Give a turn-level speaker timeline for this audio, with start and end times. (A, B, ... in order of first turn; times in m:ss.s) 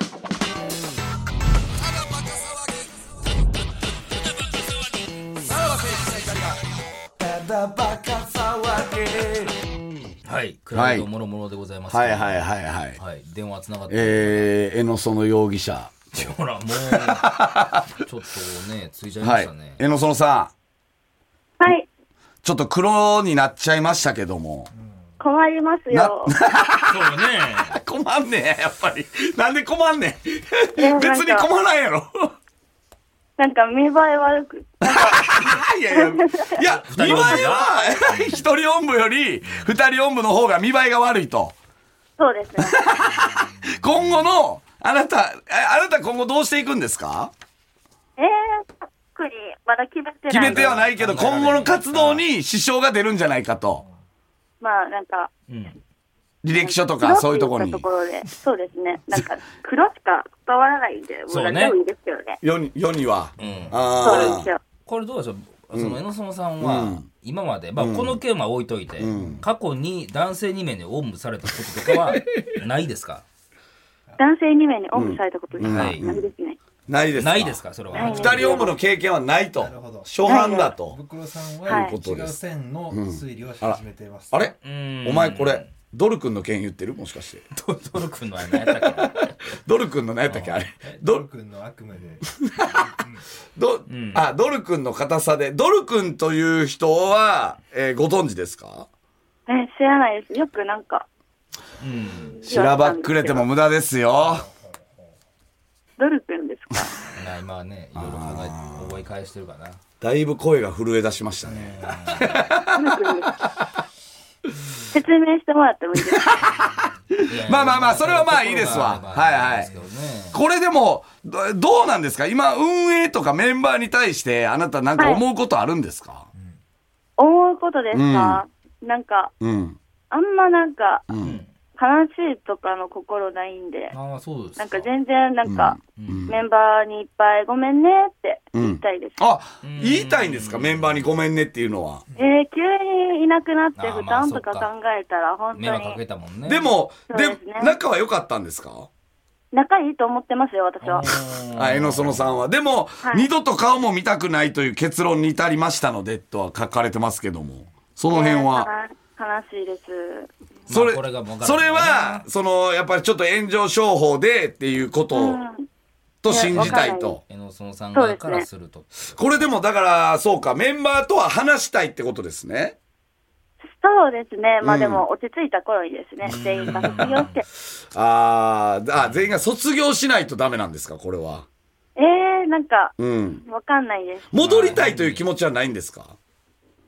0:02.1-0:02.5 A
0:05.4-0:06.6 A
0:07.2-0:09.6 A
0:10.2-0:14.5 B
0:10.7-0:11.1 A
0:11.9-0:13.0 A
0:13.9-0:16.3 A
0:16.1-0:19.8 B
0:17.0-0:17.8 A
0:19.2-0:20.5 A
0:21.6-0:21.9 C
0:22.4-0:24.7 A
0:25.2-0:26.4 C
0:25.9-0:32.3 A
0:26.9-0:27.8 B
0:30.8-0:31.5 C
0:33.4-0:35.2 C
0:34.8-0:41.5 A
0:35.9-0:36.4 C
0:36.6-0:38.4 B
0:37.0-0:37.4 C
0:42.2-0:43.0 C
0:42.6-0:47.3 A
0:48.2-0:50.7 C
0:50.3-0:53.8 A
0:50.3-0:52.2 B
0:54.6-0:55.3 C
0:55.5-0:55.8 B
0:56.4-0:57.8 A
0:56.5-1:02.4 C
1:01.3-1:01.7 B
1:02.4-1:04.5 A
1:03.4-1:13.2 B
1:04.0-1:04.6 C
1:05.7-1:06.0 A
1:06.6-1:07.0 A
1:07.8-1:08.2 A
1:09.0-1:09.4 A
1:09.2-1:09.4 D
1:14.2-1:16.6 C
1:14.9-1:16.2 A
1:15.6-1:16.0 B
1:16.9-1:21.0 A
1:17.2-1:18.5 B
1:17.9-1:18.7 C
1:18.0-1:18.6 D
1:19.6-1:24.5 D
1:20.3-1:20.7 C
1:21.7-1:22.0 C
1:21.7-1:22.4 A
1:22.9-1:27.5 A
1:24.6-1:25.7 B
1:27.6-1:29.3 B
1:28.6-1:31.2 A
1:30.3-1:30.6 B
1:30.8-1:33.2 D
1:32.4-1:32.9 A
1:33.6-1:38.9 A
1:33.9-1:34.2 B
1:39.5-1:41.0 C
1:41.8-1:42.4 B
1:42.4-1:43.5 C
1:42.4-1:44.4 A
1:46.0-1:46.9 C
1:47.1-1:49.8 B
1:48.0-1:49.0 A
1:50.0-1:53.6 A
1:51.4-1:52.5 B
1:52.7-1:53.4 C
1:54.8-1:56.4 C
1:56.4-1:59.7 A
1:57.2-2:00.4 B
1:58.7-1:59.0 D
1:59.5-1:59.8 D
2:00.3-2:06.3 A
2:05.0-2:05.2 C
2:07.2-2:09.3 C
2:07.9-2:08.4 A
2:09.4-2:09.8 A
2:10.1-2:11.1 C
2:11.1-2:11.4 A
2:11.2-2:11.5 B
2:11.8-2:13.9 C
2:13.9-2:14.9 B
2:14.6-2:19.2 C
2:15.5-2:16.4 A
2:16.0-2:16.3 B
2:18.6-2:22.0 A
2:19.6-2:21.1 B
2:22.2-2:26.0 C
2:23.8-2:24.7 B
2:25.5-2:26.7 B
2:26.4-2:28.9 A
2:27.1-2:27.8 C
2:29.5-2:31.1 C
2:30.8-2:32.4 B
2:31.6-2:38.7 A
2:33.0-2:33.3 C
2:38.1-2:40.3 C
2:40.7-2:42.2 B
2:40.7-2:45.4 A
2:45.1-2:45.7 C
2:46.2-2:47.2 A
2:46.3-2:47.2 C
2:46.3-2:49.5 B
2:47.9-2:48.4 C
2:49.2-2:52.8 A
2:53.7-2:57.4 C
2:54.6-2:55.0 A
2:56.2-2:57.4 B
2:56.3-2:57.3 A
2:57.9-3:01.5 A
2:59.0-2:59.4 B
3:02.0-3:04.3 C
3:03.0-3:03.4 A
3:04.3-3:06.2 A
3:04.4-3:05.2 B